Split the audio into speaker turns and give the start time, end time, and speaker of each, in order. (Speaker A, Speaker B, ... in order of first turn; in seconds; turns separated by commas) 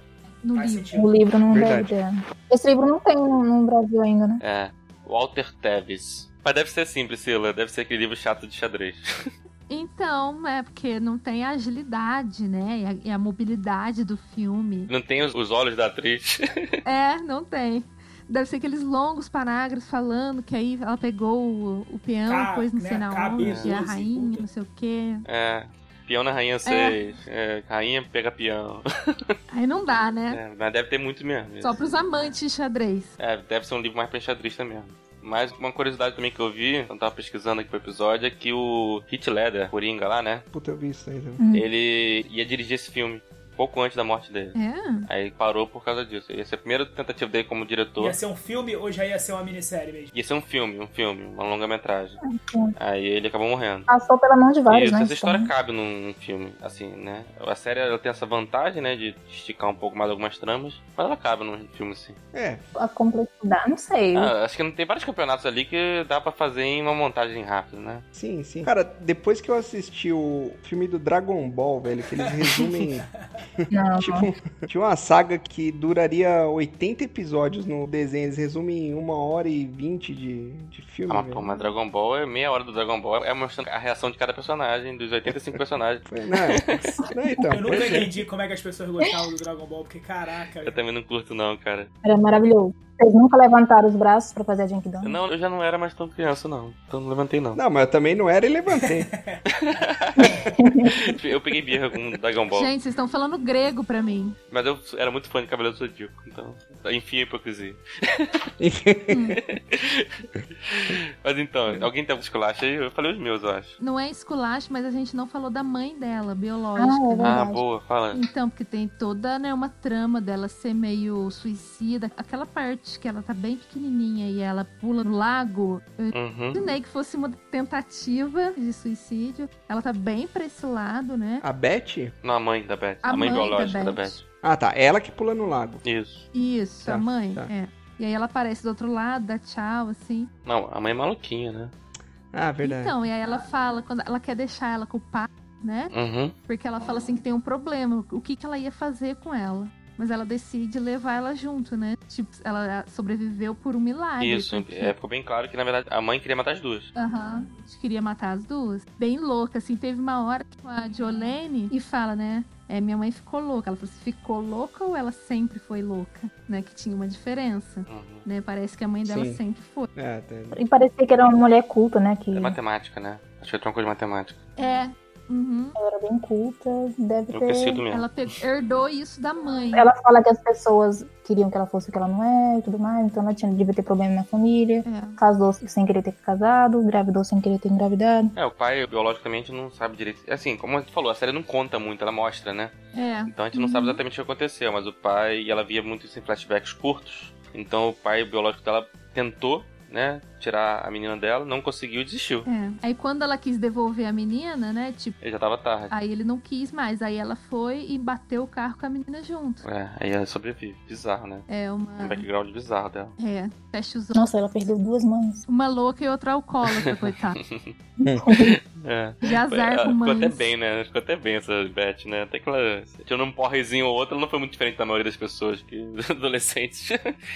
Speaker A: 0.4-0.9, Speaker B: 0.5-1.1, Speaker C: 0.9-4.4, Speaker D: 1.5-1.9, Speaker E: 4.4-9.3, Speaker A: 9.7-14.9, Speaker E: 14.9-16.8, Speaker A: 16.8-25.2, Speaker B: 22.2-24.4, Speaker E: 23.4-23.7, Speaker E: 25.2-29.3, Speaker A: 26.6-27.0, Speaker A: 29.5-30.4, Speaker E: 30.3-31.8, Speaker A: 31.6-33.1, Speaker E: 33.2-40.4, Speaker D: 40.5-41.4, Speaker C: 41.4-41.7, Speaker E: 41.5-44.5, Speaker A: 44.5-45.1, Speaker E: 45.1-48.2, Speaker B: 48.0-50.1, Speaker E: 50.1-52.2, Speaker C: 52.2-52.7, Speaker E: 52.8-53.9, Speaker C: 53.9-55.5, Speaker E: 54.7-62.2, Speaker D: 62.3-62.6, Speaker C: 62.8-64.3, Speaker E: 64.1-68.0, Speaker D: 68.1-81.4, Speaker B: 72.2-73.1, Speaker C: 73.7-74.3, Speaker E: 81.1-86.9, Speaker D: 85.3-88.1, Speaker B: 87.5-90.8, Speaker E: 90.6-91.9, Speaker C: 92.0-95.2, Speaker E: 95.0-97.6, Speaker D: 97.5-99.1, Speaker B: 98.8-99.4, Speaker E: 99.5-100.4, Speaker C: 100.4-101.0, Speaker E: 100.9-102.7, Speaker A: 102.5-104.3, Speaker E: 104.5-108.4, Speaker D: 108.6-109.3, Speaker E: 109.4-113.8, Speaker A: 113.8-117.4, Speaker C: 116.8-117.6, Speaker E: 117.2-118.2, Speaker A: 118.1-131.4, Speaker E: 126.1-126.6, Speaker D: 131.4-132.1, Speaker E: 132.2-134.2, Speaker A: 133.0-134.2, Speaker D: 134.4-135.8, Speaker E: 135.8-136.3, Speaker A: 136.3-140.3, Speaker D: 136.8-137.5, Speaker E: 140.4-141.7, Speaker D: 142.3-142.9, Speaker A: 142.6-145.9, Speaker E: 145.9-146.3, Speaker A: 146.5-154.9, Speaker E: 154.2-156.9, Speaker A: 156.9-169.9, Speaker E: 167.9-168.2, Speaker D: 169.1-169.4, Speaker D: 169.9-170.6, Speaker C: 170.5-172.6, Speaker E: 172.3-174.4, Speaker A: 174.6-175.8, Speaker C: 175.8-177.8, Speaker E: 177.3-178.1, Speaker A: 177.9-179.9, Speaker C: 179.7-188.3, Speaker A: 184.8-185.2, Speaker E: 188.3-192.7, Speaker A: 192.9-194.0, Speaker E: 193.3-202.5, Speaker A: 202.4-205.2, Speaker E: 205.2-205.9, Speaker A: 205.9-209.6, Speaker E: 209.6-211.4, Speaker A: 211.5-212.2, Speaker E: 212.0-213.1, Speaker A: 213.2-214.2, Speaker C: 214.1-215.4, Speaker A: 215.5-217.4, Speaker E: 217.4-217.7, Speaker C: 218.0-218.6, Speaker E: 218.3-227.2, Speaker A: 219.2-220.4